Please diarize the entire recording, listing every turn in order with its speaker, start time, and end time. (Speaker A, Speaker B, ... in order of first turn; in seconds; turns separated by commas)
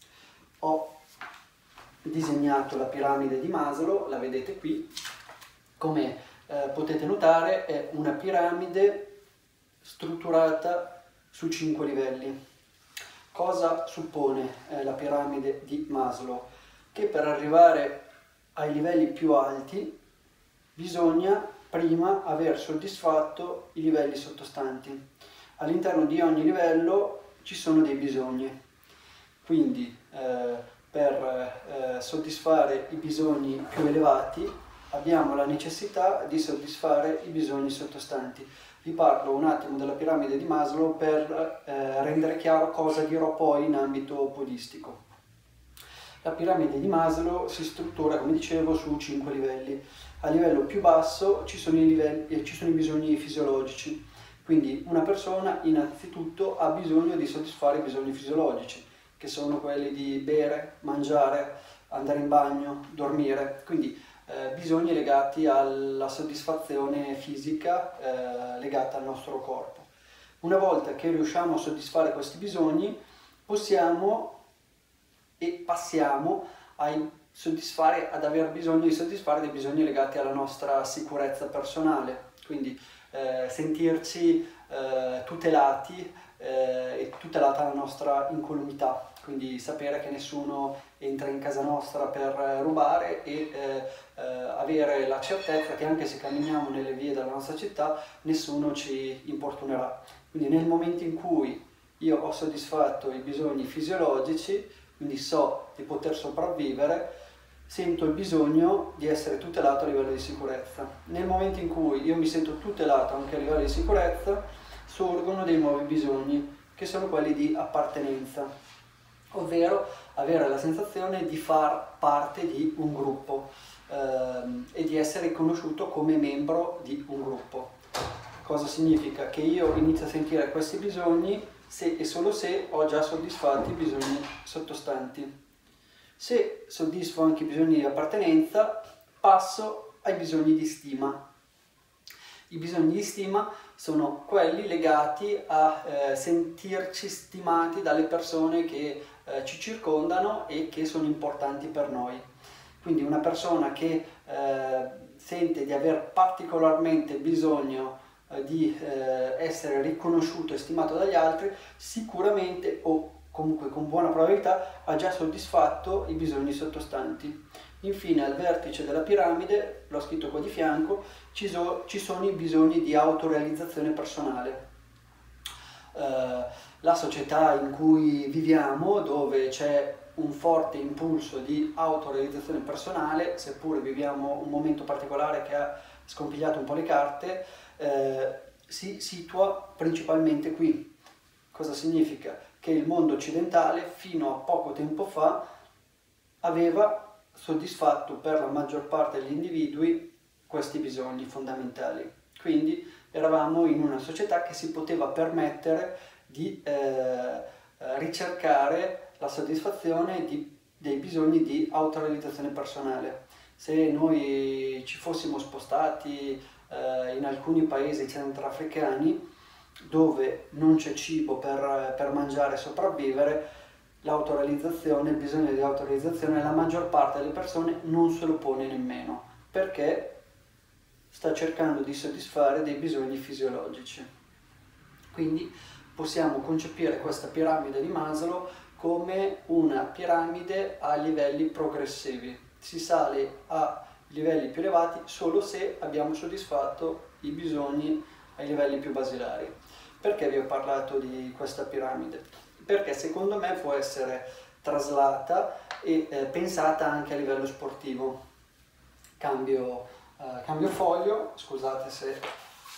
Speaker A: 0.6-0.9, Speaker A: 2.0-4.8, Speaker A: 5.8-9.1, Speaker A: 9.8-12.3, Speaker A: 13.3-18.0, Speaker A: 18.5-19.9, Speaker A: 20.8-25.0, Speaker A: 25.6-28.5, Speaker A: 29.4-45.0, Speaker A: 46.2-69.9, Speaker A: 70.4-74.3, Speaker A: 75.4-107.1, Speaker A: 107.7-118.5, Speaker A: 119.3-127.7, Speaker A: 128.4-135.3, Speaker A: 136.2-141.2, Speaker A: 142.5-152.2, Speaker A: 152.8-174.6, Speaker A: 175.9-190.9, Speaker A: 191.5-195.4, Speaker A: 196.4-219.2, Speaker A: 219.8-223.4, Speaker A: 224.0-230.2, Speaker A: 231.1-234.1, Speaker A: 235.1-258.2, Speaker A: 259.2-262.2